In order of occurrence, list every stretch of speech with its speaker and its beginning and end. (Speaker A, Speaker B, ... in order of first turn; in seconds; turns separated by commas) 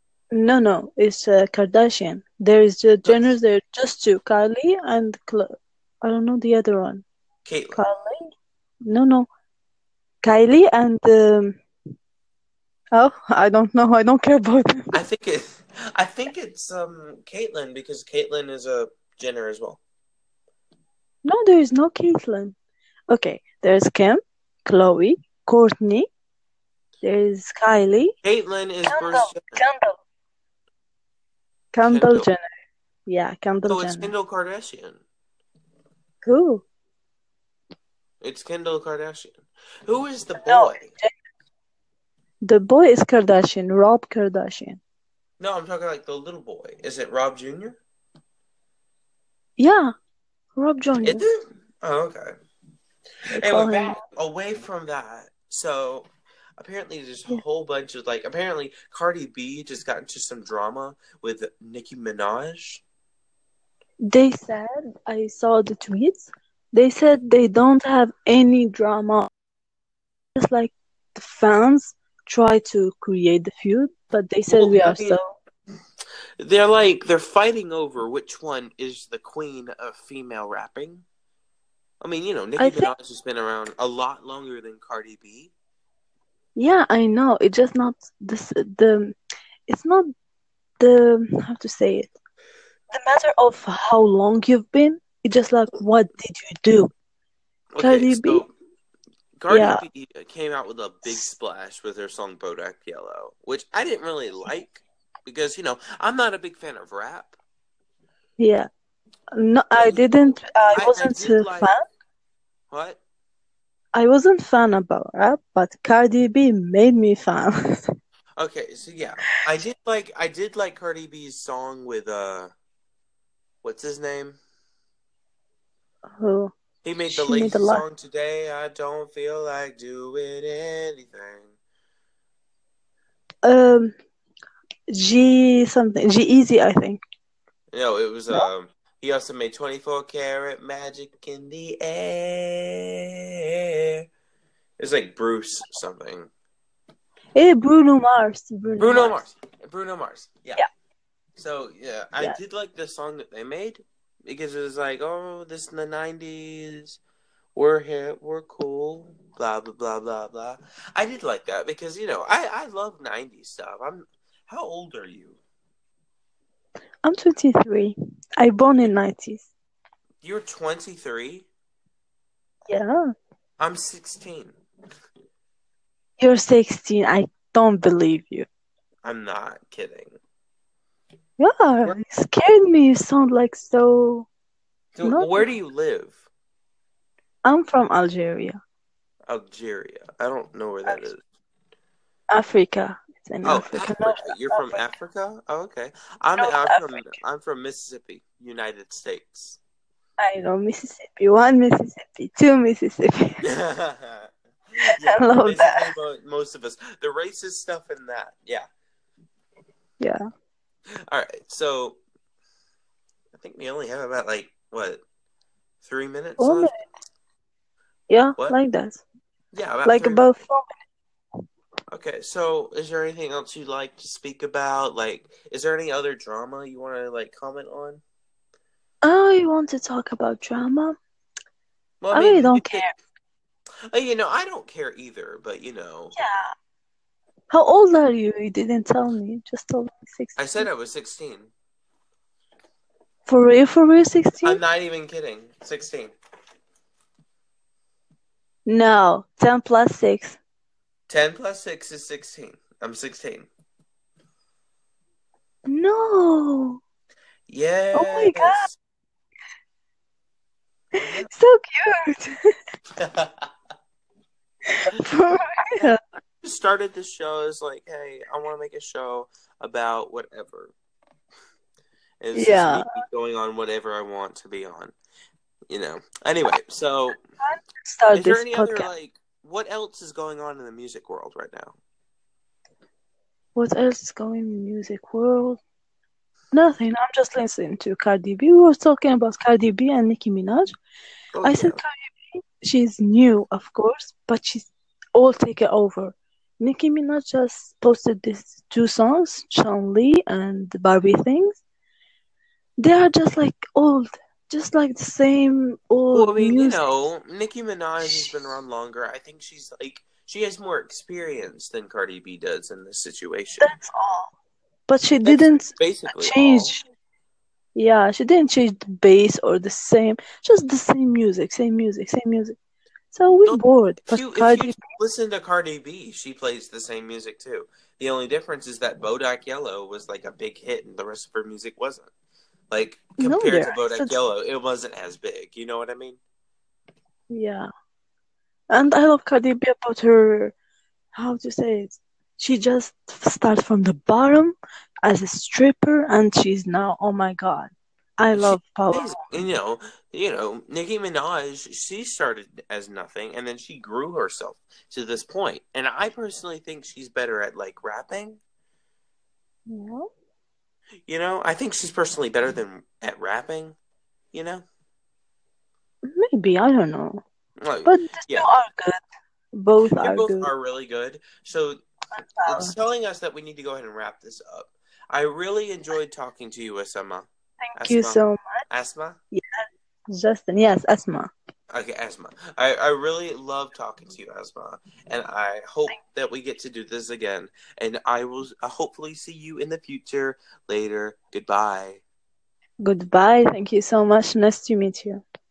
Speaker A: 0.3-7.0, Speaker B: 3.0-3.3, Speaker B: 7.4-7.8, Speaker A: 7.7-8.3, Speaker A: 8.8-9.3, Speaker A: 10.2-11.6, Speaker A: 12.9-14.9, Speaker B: 14.9-19.8, Speaker A: 21.2-22.6, Speaker A: 23.1-26.1, Speaker A: 27.0-28.1, Speaker B: 28.2-29.6, Speaker A: 28.9-29.9, Speaker A: 31.7-32.4, Speaker B: 31.8-32.3, Speaker A: 33.1-34.1, Speaker B: 33.7-35.0, Speaker A: 36.2-36.6, Speaker B: 38.2-40.9, Speaker A: 40.4-41.1, Speaker A: 42.4-44.8, Speaker B: 45.4-47.8, Speaker A: 49.6-49.9, Speaker A: 50.5-51.2, Speaker B: 51.0-52.3, Speaker A: 53.3-54.0, Speaker B: 53.4-62.8, Speaker A: 64.1-69.3, Speaker A: 70.3-75.3, Speaker B: 74.5-75.2, Speaker B: 76.4-81.0, Speaker B: 82.0-85.5, Speaker A: 82.6-82.9, Speaker A: 86.5-89.2, Speaker A: 89.7-90.0, Speaker A: 90.8-92.1, Speaker A: 92.9-96.9, Speaker B: 97.7-98.5, Speaker A: 97.8-98.5, Speaker B: 99.4-107.4, Speaker A: 99.5-99.8, Speaker A: 108.4-108.7, Speaker A: 109.3-111.8, Speaker B: 109.7-111.7, Speaker B: 112.7-113.0, Speaker A: 113.9-117.9, Speaker B: 118.4-122.5, Speaker B: 123.6-124.4, Speaker A: 126.2-126.5, Speaker B: 126.8-131.5, Speaker A: 127.1-127.8, Speaker A: 133.4-133.9, Speaker A: 134.9-137.0, Speaker B: 137.7-144.0, Speaker B: 144.8-146.3, Speaker A: 147.3-149.2, Speaker B: 148.8-150.6, Speaker B: 151.4-157.0, Speaker B: 157.5-165.4, Speaker A: 167.0-169.5, Speaker B: 170.2-171.5, Speaker A: 172.7-173.0, Speaker B: 173.6-174.6, Speaker A: 176.2-178.5, Speaker B: 179.0-180.2, Speaker A: 181.4-184.3, Speaker B: 184.9-186.2, Speaker A: 185.0-185.5, Speaker A: 187.4-188.6, Speaker B: 189.3-191.2, Speaker A: 190.8-191.1, Speaker A: 192.3-194.8, Speaker B: 193.4-199.6, Speaker A: 196.4-197.1, Speaker A: 200.2-203.4, Speaker B: 203.4-204.3, Speaker A: 205.0-205.9, Speaker B: 205.0-208.7, Speaker B: 211.1-212.0, Speaker B: 213.3-215.0, Speaker B: 215.8-216.7, Speaker A: 216.4-216.8, Speaker A: 218.1-219.0, Speaker B: 219.5-220.3, Speaker A: 219.8-220.8, Speaker B: 221.9-228.0, Speaker A: 229.0-231.0, Speaker B: 232.0-232.9, Speaker A: 232.1-232.9, Speaker B: 233.9-236.2, Speaker A: 236.2-236.5, Speaker A: 237.5-240.7, Speaker B: 240.4-241.5, Speaker A: 243.2-244.6, Speaker B: 244.4-246.1, Speaker A: 248.7-250.4, Speaker B: 251.1-253.5, Speaker A: 255.7-256.8, Speaker B: 257.5-258.7, Speaker A: 257.9-258.7, Speaker B: 261.0-261.3, Speaker A: 261.0-262.3, Speaker B: 263.0-263.5, Speaker A: 264.7-266.0, Speaker B: 266.4-270.7, Speaker B: 272.2-274.9, Speaker A: 272.3-272.8, Speaker B: 275.7-277.2, Speaker A: 277.4-278.9, Speaker B: 278.1-281.8, Speaker A: 283.6-285.6, Speaker A: 286.5-290.7, Speaker B: 291.3-291.8, Speaker A: 291.4-301.6, Speaker A: 302.8-306.8, Speaker B: 306.1-313.7, Speaker A: 308.0-308.3, Speaker A: 313.6-314.3, Speaker A: 314.9-316.8, Speaker B: 315.2-316.7, Speaker A: 317.7-322.5, Speaker A: 323.1-324.8, Speaker B: 323.4-332.1, Speaker B: 332.7-336.2, Speaker A: 333.2-334.1, Speaker A: 337.3-337.7, Speaker A: 338.7-340.5, Speaker A: 341.1-349.1, Speaker B: 348.3-358.4, Speaker A: 359.7-360.1, Speaker B: 361.1-363.8, Speaker B: 364.3-364.6, Speaker A: 366.1-367.2, Speaker B: 367.6-368.5, Speaker A: 367.8-369.0, Speaker A: 369.5-370.5, Speaker B: 369.9-371.8, Speaker A: 372.2-372.7, Speaker B: 372.4-379.2, Speaker A: 377.6-378.6, Speaker A: 379.3-379.6, Speaker A: 380.1-381.3, Speaker B: 381.7-392.0, Speaker A: 392.8-395.2